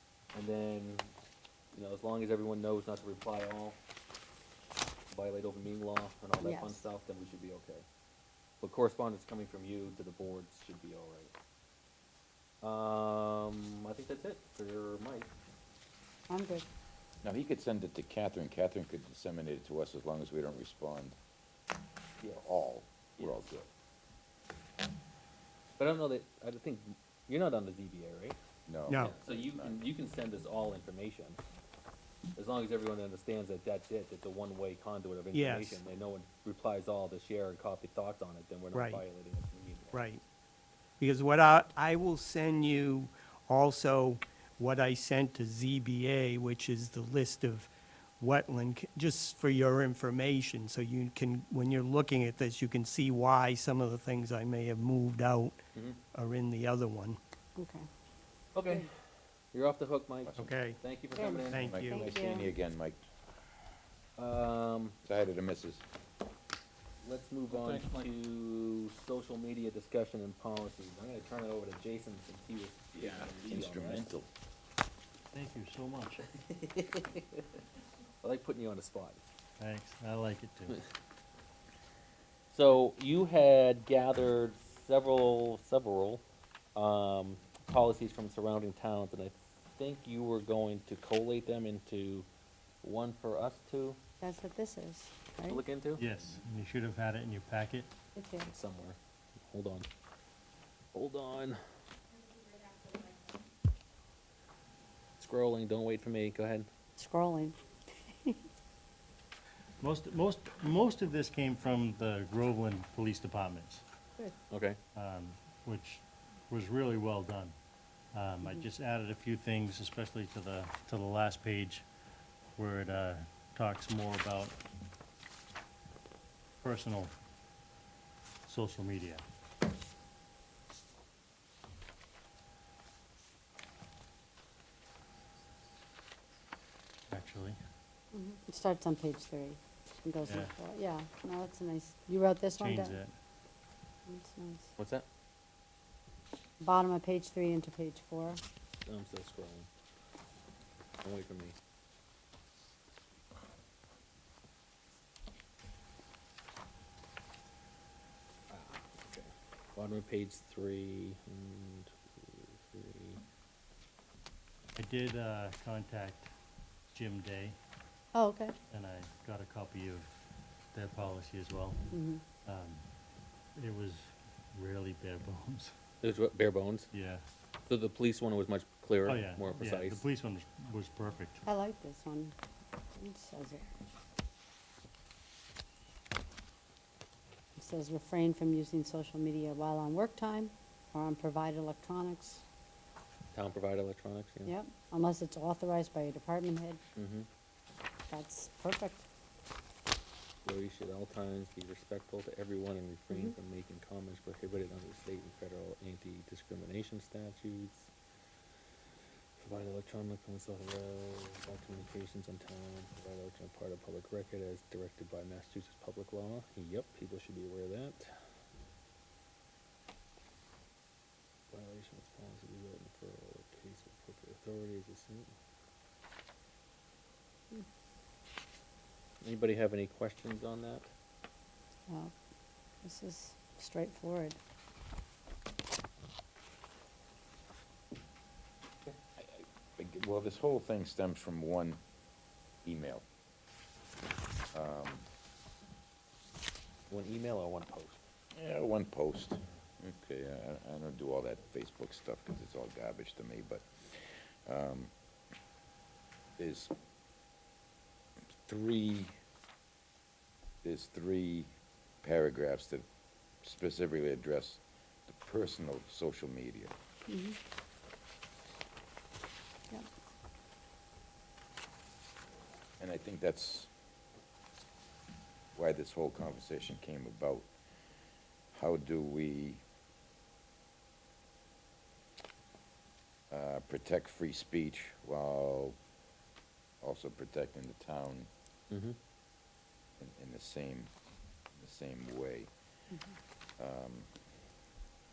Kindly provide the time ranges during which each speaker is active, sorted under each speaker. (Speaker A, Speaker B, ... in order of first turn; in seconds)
Speaker A: 0.3-1.1, 1.7-3.8, 5.1-7.8, 8.6-11.3, 12.6-15.3, 22.2-22.6, 25.8-28.4, 28.9-31.4, 32.4-40.0, 58.5-58.9, 59.5-61.8, 64.2-65.0, 67.0-74.1, 76.4-77.5, 78.2-79.2, 82.5-86.2, 86.8-92.3, 92.8-94.0, 95.5-96.0, 98.4-99.9, 100.9-101.6, 105.2-106.7, 114.5-114.8, 144.8-145.1, 148.9-149.7, 151.0-151.6, 158.5-163.2, 176.0-176.9, 177.7-180.0, 193.3-194.5, 197.0-197.3, 200.4-207.9, 209.4-218.1, 221.5-225.3, 229.2-230.9, 246.9-248.0, 288.7-289.0
Speaker B: 6.4-6.8, 16.3-16.7, 57.6-57.9, 61.1-62.5, 94.2-95.6, 98.2-98.5, 107.0-108.4, 138.1-143.0, 144.1-144.7, 146.6-148.4, 168.1-168.6, 171.9-172.2, 181.4-182.3, 183.0-183.7, 187.6-192.4, 194.4-196.8, 198.1-199.0, 203.1-203.4, 231.9-232.1, 232.8-234.4, 267.1-267.4
Speaker C: 17.2-21.2, 22.3-23.7, 28.7-29.9, 60.3-60.5, 61.6-63.0, 65.0-65.8, 72.9-74.3, 239.2-241.8, 242.6-243.1, 244.5-245.1, 248.4-254.9, 256.4-256.7, 258.4-259.2, 260.6-262.9, 263.4-266.7, 272.8-273.7, 275.6-277.5, 278.5-279.6, 283.3-285.8, 286.8-288.3, 290.0-290.9, 291.6-292.5, 293.6-294.1
Speaker D: 28.9-29.1, 35.3-35.8, 38.7-39.0, 39.9-40.2, 41.0-55.6, 56.1-57.2, 60.4-60.8, 61.5-62.1
Speaker E: 75.3-76.4, 79.6-80.8, 96.0-97.9, 109.8-113.8, 115.0-117.5, 118.1-121.9, 122.5-124.6, 126.6-127.1, 128.5-129.2, 137.1-137.6, 140.2-140.5, 142.6-143.2, 164.8-166.3, 166.9-167.6, 168.7-170.1, 170.7-171.9, 172.4-172.9, 173.6-175.7, 176.9-177.2, 179.1-181.4